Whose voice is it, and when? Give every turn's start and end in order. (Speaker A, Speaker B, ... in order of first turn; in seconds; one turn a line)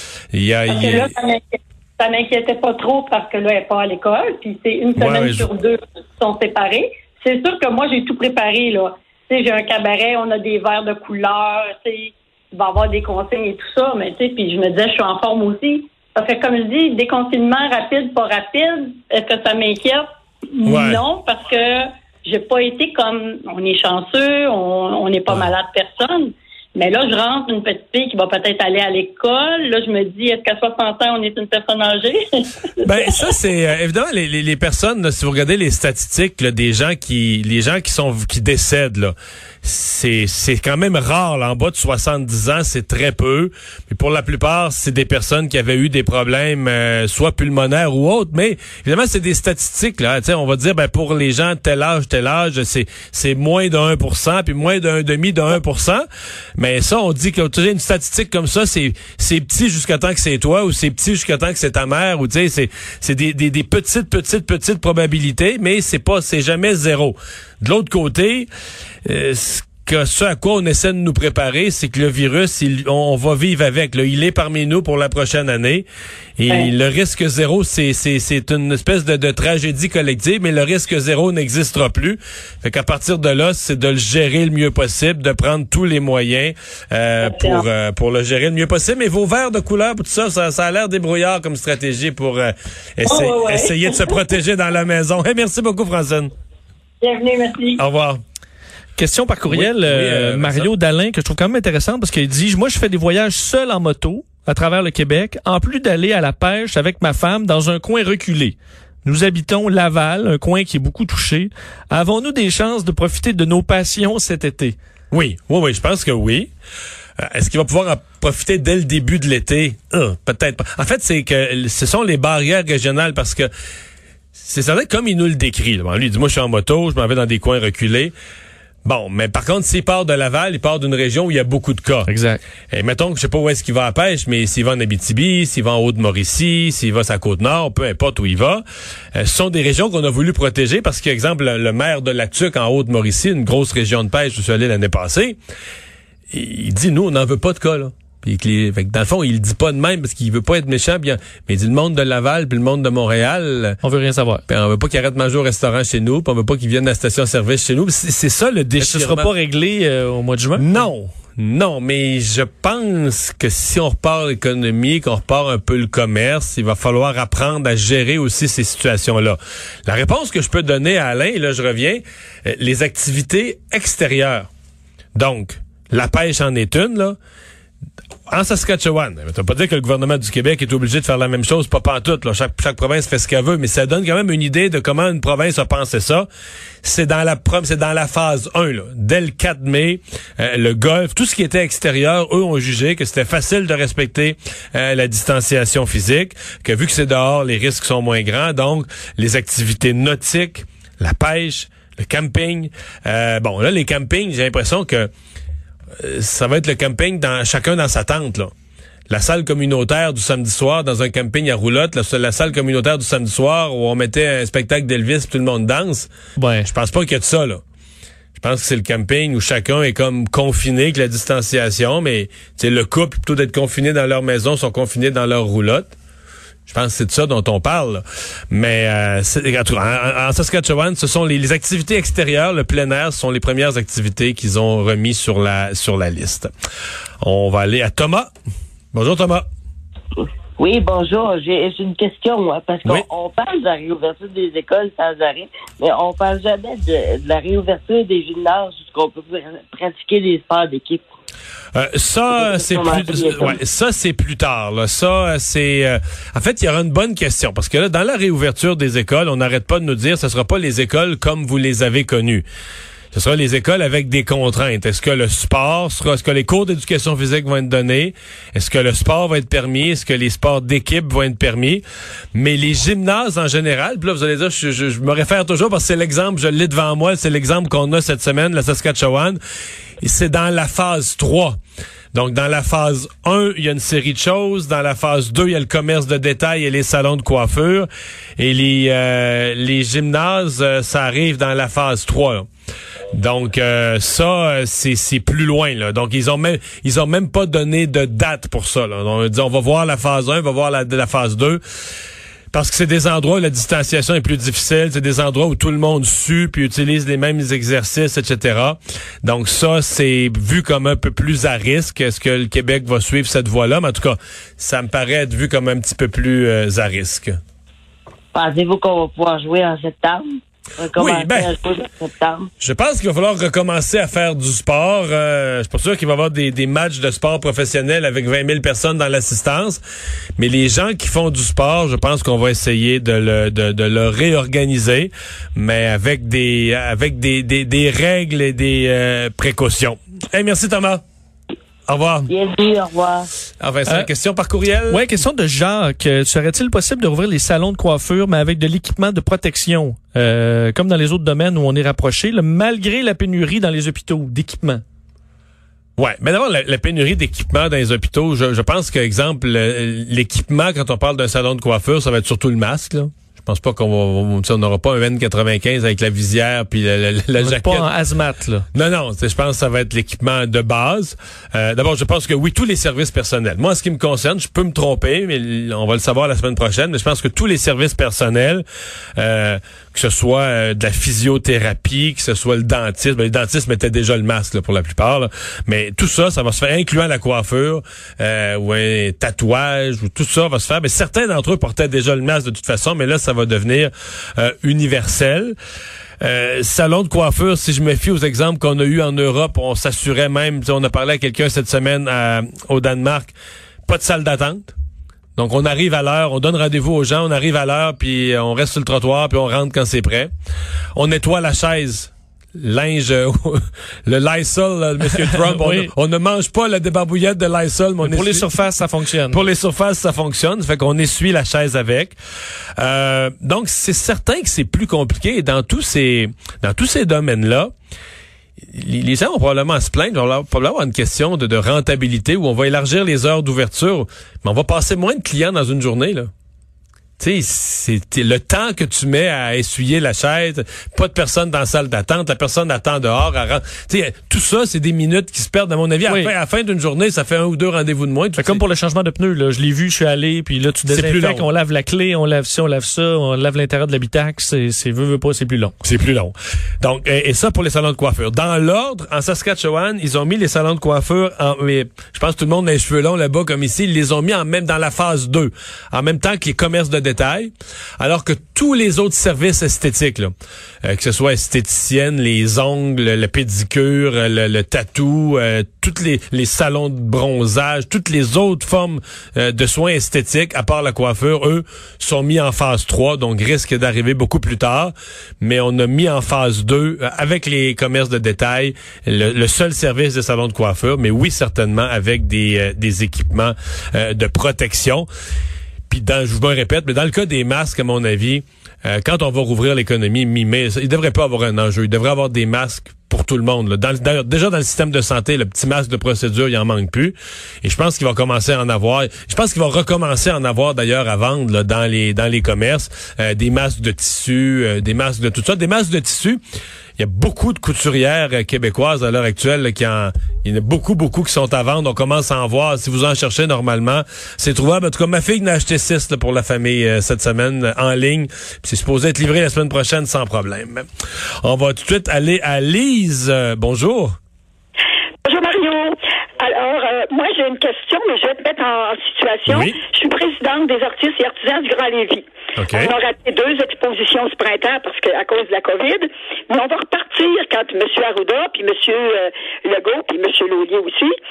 Speaker A: 0.3-1.1
Speaker B: 0.7-33.1
Speaker A: 5.0-5.5
Speaker A: 20.6-21.0
Speaker A: 32.8-56.1
Speaker A: 56.6-68.5
Speaker A: 69.0-75.9
Speaker A: 76.4-96.3
Speaker B: 87.2-87.7
Speaker B: 93.1-94.1
Speaker B: 97.0-97.8
Speaker A: 97.8-98.2
Speaker C: 99.0-114.8
Speaker A: 99.5-100.7
Speaker A: 115.1-116.5
Speaker A: 117.2-123.5
Speaker A: 124.4-128.2
Speaker A: 128.8-132.1
Speaker C: 132.1-132.4
Speaker A: 132.7-138.6
Speaker A: 139.1-145.4
Speaker A: 146.3-153.8
Speaker C: 153.8-154.4
Speaker A: 154.5-159.3
Speaker C: 158.8-160.8
Speaker A: 160.6-174.5
Speaker A: 175.2-177.2
Speaker A: 178.3-186.3
Speaker A: 186.8-205.1
Speaker A: 206.0-208.5
Speaker A: 209.1-216.1
Speaker C: 216.4-216.7
Speaker A: 216.7-217.6
Speaker A: 218.4-225.9
Speaker A: 226.7-236.5
Speaker A: 237.2-238.3
Speaker A: 238.9-239.5
Speaker D: 240.6-251.1
Speaker A: 251.8-262.5
Speaker D: 252.3-253.6
Speaker A: 263.1-279.4
Speaker A: 280.0-281.6
Speaker A: 282.1-292.5
Speaker A: 293.1-301.6
Speaker A: 302.5-317.4
Speaker D: 318.3-322.5
Speaker A: 320.9-321.5
Speaker A: 322.6-329.8
Speaker A: 330.4-341.0
Speaker A: 341.9-342.3
Speaker D: 342.3-343.3
Speaker A: 343.6-345.0
Speaker C: 344.9-354.8
Speaker A: 356.0-367.9
Speaker C: 367.4-368.7
Speaker A: 368.7-378.6
Speaker A: 379.2-395.6
Speaker A: 396.2-403.3
Speaker A: 403.9-404.7
Speaker A: 405.4-410.3
Speaker A: 410.9-418.5
Speaker C: 415.4-415.9
Speaker C: 418.0-419.4
Speaker A: 419.3-422.2
Speaker A: 422.8-427.7
Speaker A: 428.7-436.3
Speaker A: 437.2-448.6
Speaker C: 446.1-446.3
Speaker C: 448.4-455.7
Speaker A: 450.9-451.5
Speaker A: 455.8-495.1
Speaker A: 495.9-516.4
Speaker A: 517.0-530.9
Speaker A: 531.4-534.2
Speaker E: 535.2-551.1
Speaker A: 539.5-539.8
Speaker A: 542.6-543.0